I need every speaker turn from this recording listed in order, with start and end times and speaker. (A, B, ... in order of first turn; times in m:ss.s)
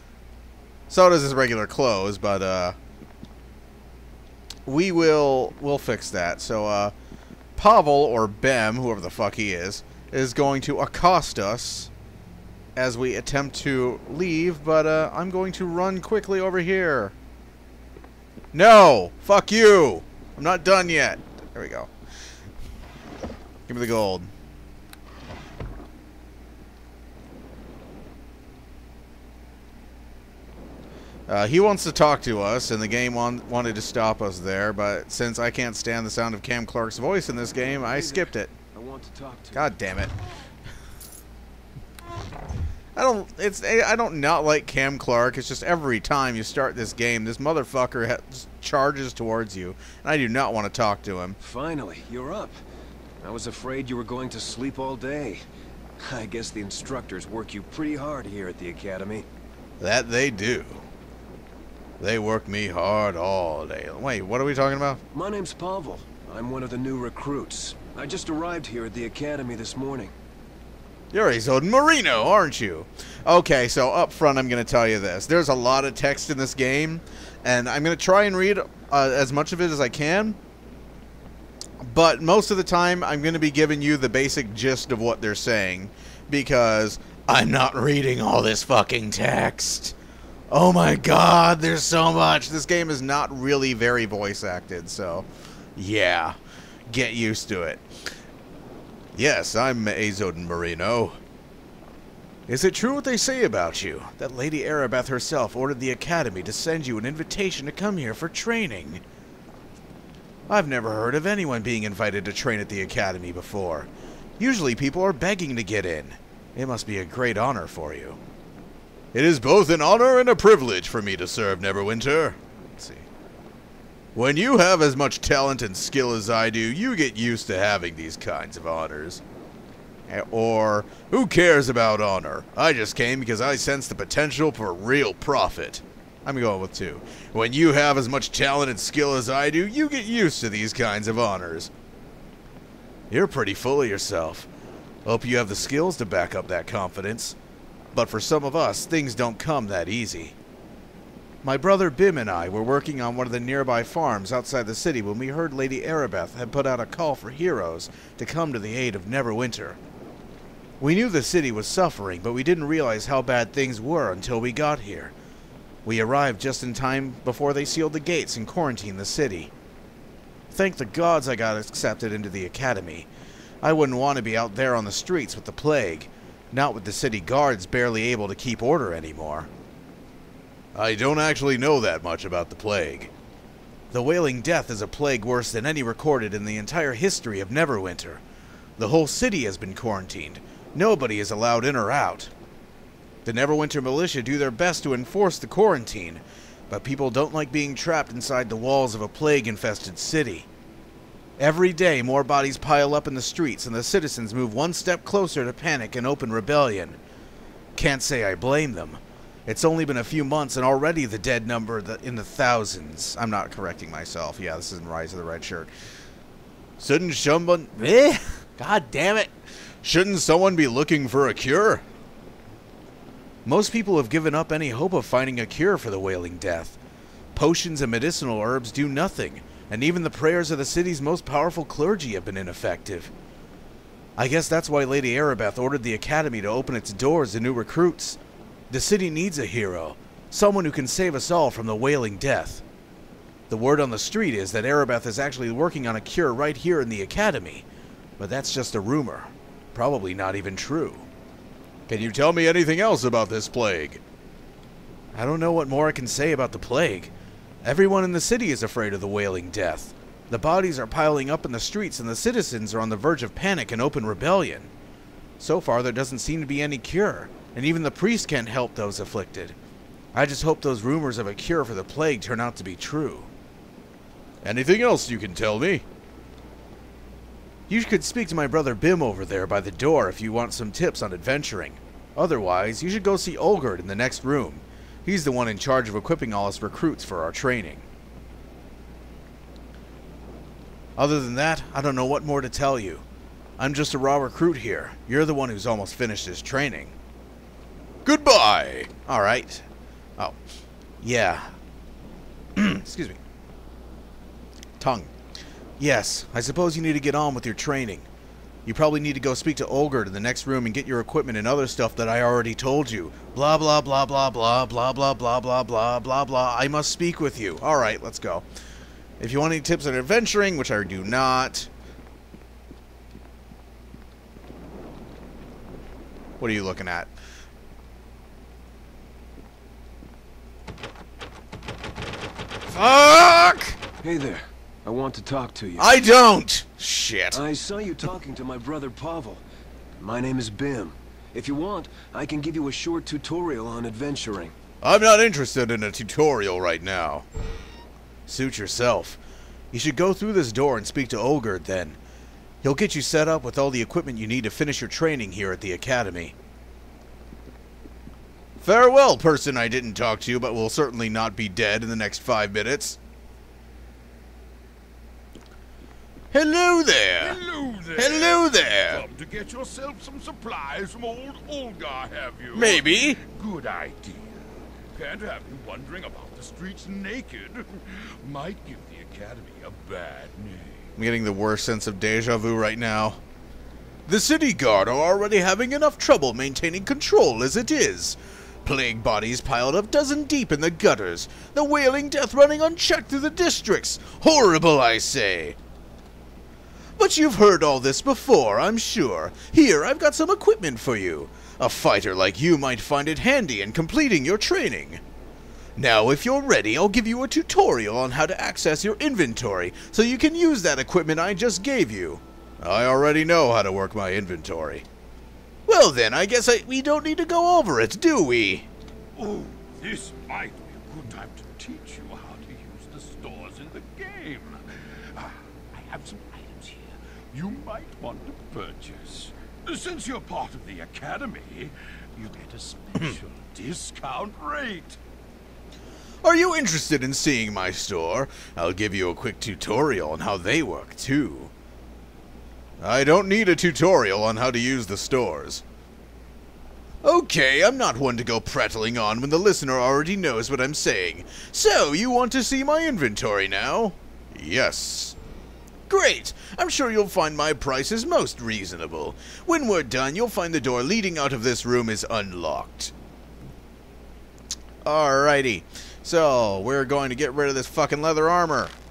0:00.9-0:02.8 A
0:04.6-0:06.9 A
0:07.6-0:11.9 A
0:12.8-0:17.1 A
0:18.5-0:21.9 A
0:23.7-0:24.3 A
0:31.3-0:38.5 A
0:37.8-0:39.7 B
0:39.5-0:40.1 A
0:42.9-0:51.4 A
0:51.4-0:52.6 B
0:53.2-0:55.4 B
0:56.0-0:59.2 B
0:59.8-1:00.8 A
1:02.0-1:05.0 A
1:05.1-1:10.1 B
1:11.1-1:20.4 A
1:21.8-1:30.0 A
1:30.5-1:38.1 A
1:39.1-1:41.2 A
1:42.5-1:49.0 A
1:50.5-1:58.2 A
1:59.1-2:03.1 A
2:04.1-2:09.2 A
2:10.1-2:21.7 A
2:23.1-2:24.5 A
2:25.0-2:27.4 A
2:27.9-2:30.4 A
2:31.4-2:39.8 A
2:40.8-2:45.1 A
2:45.8-2:49.5 A
2:50.5-2:53.1 A
2:53.6-2:59.5 A
3:00.7-3:03.1 A
3:03.9-3:08.2 A
3:08.8-3:12.3 A
3:13.2-3:20.5 A
3:21.4-3:27.0 A
3:27.8-3:35.7 A
3:36.8-3:41.8 A
3:43.4-3:46.8 A
3:47.3-3:53.1 A
3:54.2-4:02.6 A
4:03.5-4:07.6 A
4:08.2-4:11.1 A
4:11.9-4:14.0 A
4:15.1-4:24.7 A
4:25.4-4:29.6 A
4:30.1-4:33.3 A
4:34.4-4:35.8 A
4:37.7-4:47.9 A
4:51.0-4:53.0 A
4:53.6-4:56.9 A
4:58.0-4:59.6 A
5:01.0-5:01.5 A
5:02.6-5:03.2 A
5:04.8-5:05.1 A
5:05.8-5:08.1 A
5:08.6-5:18.4 A
5:19.2-5:21.7 A
5:26.4-5:27.1 A
5:32.7-5:33.8 A
5:34.0-5:35.9 B
5:35.8-5:37.4 A
5:37.3-5:39.4 B
5:40.0-5:44.5 B
5:44.8-5:47.2 A
5:48.3-5:49.2 A
5:49.7-5:52.0 A
5:52.6-5:56.3 A
5:58.6-6:03.0 A
6:06.3-6:07.4 A
6:07.2-6:14.4 C
6:07.9-6:09.0 A
6:12.5-6:13.2 A
6:14.9-6:20.8 C
6:21.0-6:23.2 A
6:24.0-6:35.6 A
6:37.0-6:45.0 A
6:45.8-6:54.8 A
6:55.7-6:58.7 A
6:59.2-7:04.6 C
7:05.1-7:15.0 C
7:16.2-7:21.5 A
7:22.8-7:25.6 A
7:27.0-7:35.2 A
7:35.9-7:42.9 A
7:44.8-7:48.7 A